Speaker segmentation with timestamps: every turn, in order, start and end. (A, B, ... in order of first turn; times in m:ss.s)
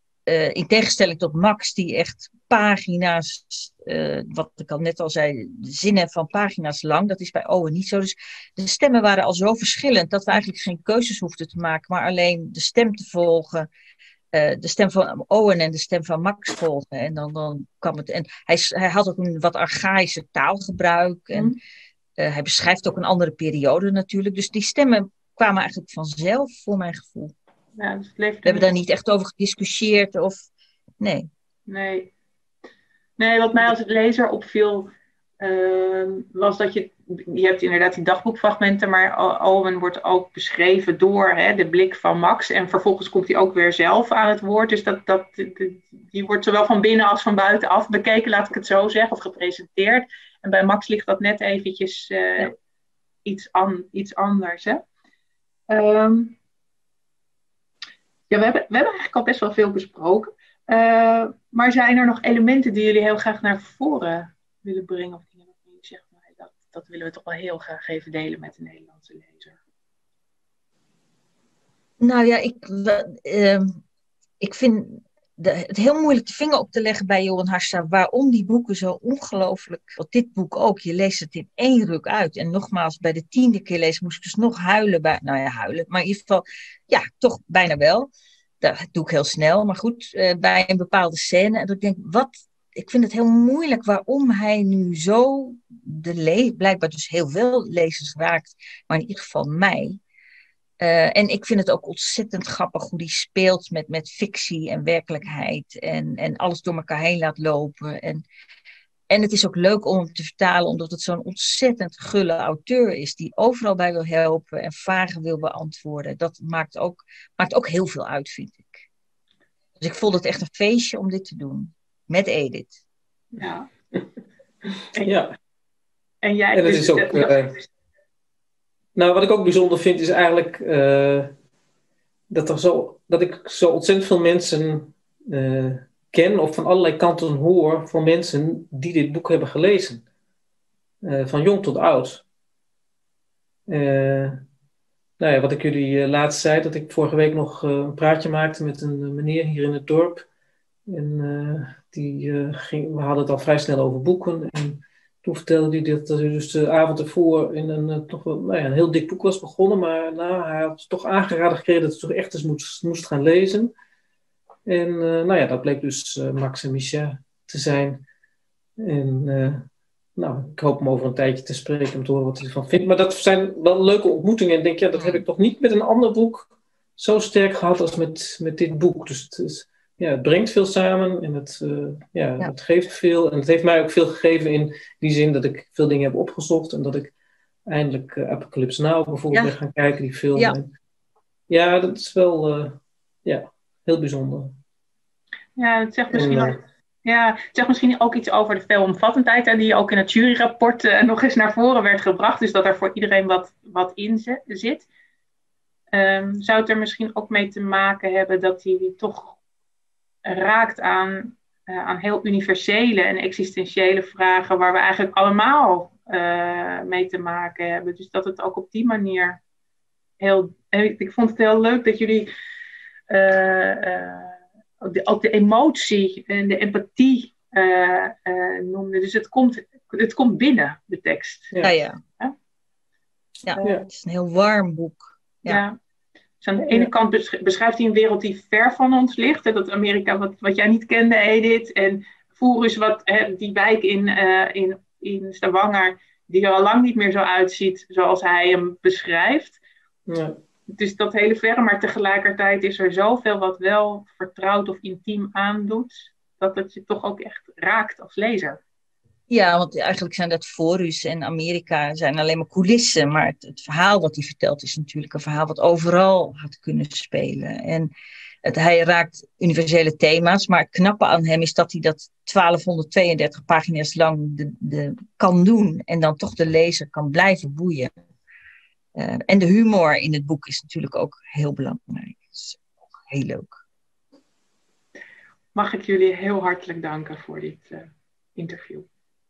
0:00.3-0:13.7 A
0:14.3-0:21.5 A
0:22.2-0:27.3 A
0:27.8-0:28.7 B
0:28.4-0:30.4 A
0:31.0-0:31.3 A
0:31.7-0:32.1 B
0:33.2-0:52.5 B
0:53.2-0:54.8 B
0:55.7-0:56.4 B
0:58.3-1:09.6 B
1:12.0-1:13.8 A
1:14.4-1:28.1 A
1:28.6-1:40.0 A
1:40.8-1:48.2 A
1:49.1-1:58.8 A
1:59.8-2:02.7 A
2:03.4-2:03.7 B
2:05.0-2:05.3 C
2:06.2-2:07.6 B
2:06.5-2:07.6 C
2:08.9-2:11.3 C
2:12.3-2:20.0 C
2:21.0-2:22.2 C
2:23.7-2:24.4 C
2:25.2-2:30.2 C
2:30.9-2:43.7 C
2:44.6-2:48.0 C
2:48.8-2:49.6 C
2:50.2-3:07.1 C
2:55.0-2:55.2 A
3:07.7-3:10.7 C
3:11.5-3:14.6 C
3:15.6-3:24.9 B
3:16.1-3:16.6 C
3:25.9-3:29.4 B
3:30.2-3:39.4 B
3:40.2-3:42.3 B
3:43.1-3:51.5 B
3:51.6-3:52.0 A
3:53.5-3:55.6 A
3:53.6-3:53.8 C
3:55.4-3:55.8 B
3:56.4-4:09.6 B
3:56.6-3:56.9 C
4:10.1-4:10.4 C
4:10.7-4:18.6 B
4:19.3-4:27.9 A
4:28.4-4:37.9 A
4:39.0-4:43.5 A
4:45.5-4:48.8 B